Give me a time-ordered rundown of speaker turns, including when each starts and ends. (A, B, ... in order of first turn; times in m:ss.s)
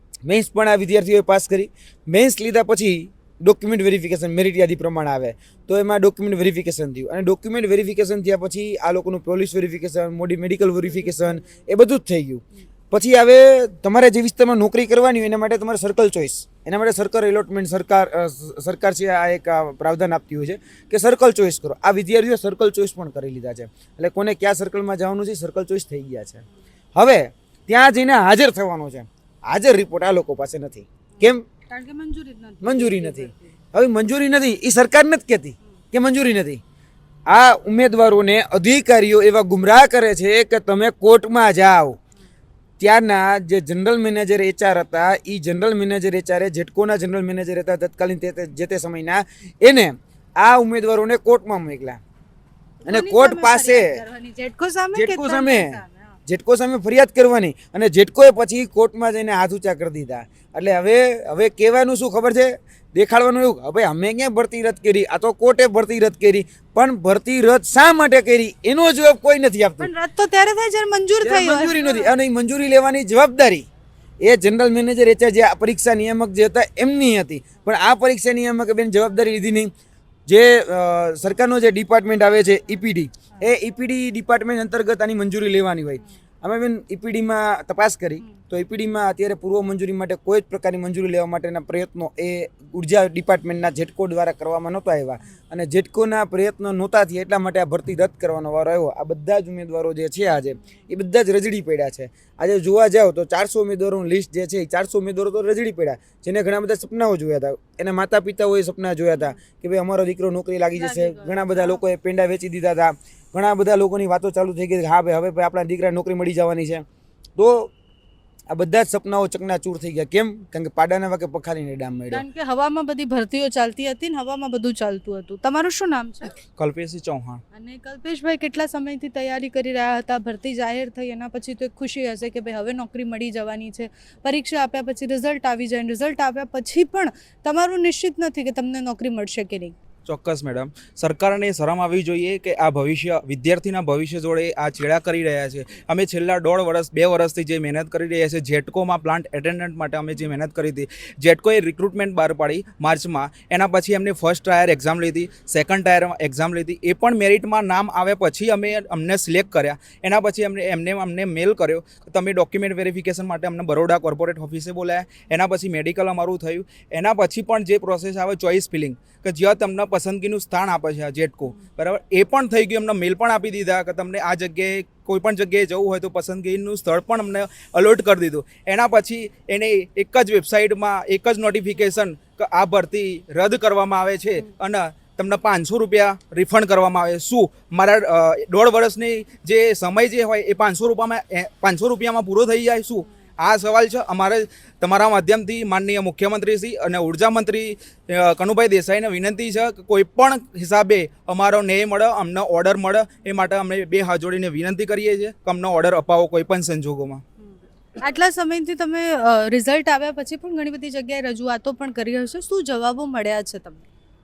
0:00.3-0:26.4 A
0:11.0-0:11.6 B
0:27.0-0:31.4 A
0:31.2-0:33.6 B
0:32.6-0:36.6 A
0:37.3-0:42.0 A
0:42.8-0:52.0 A
0:52.8-0:56.2 B
0:52.9-0:54.0 A
0:54.9-1:09.9 A
1:09.8-1:12.1 B
1:11.2-1:13.7 A
1:14.2-1:19.7 A
1:20.3-1:56.8 A
1:50.8-1:51.8 B
1:57.4-1:57.7 A
1:58.5-2:02.2 A
2:02.1-2:06.4 B
2:06.6-2:07.4 C
2:07.5-2:19.8 B
2:20.1-3:27.2 C
3:28.0-3:33.9 B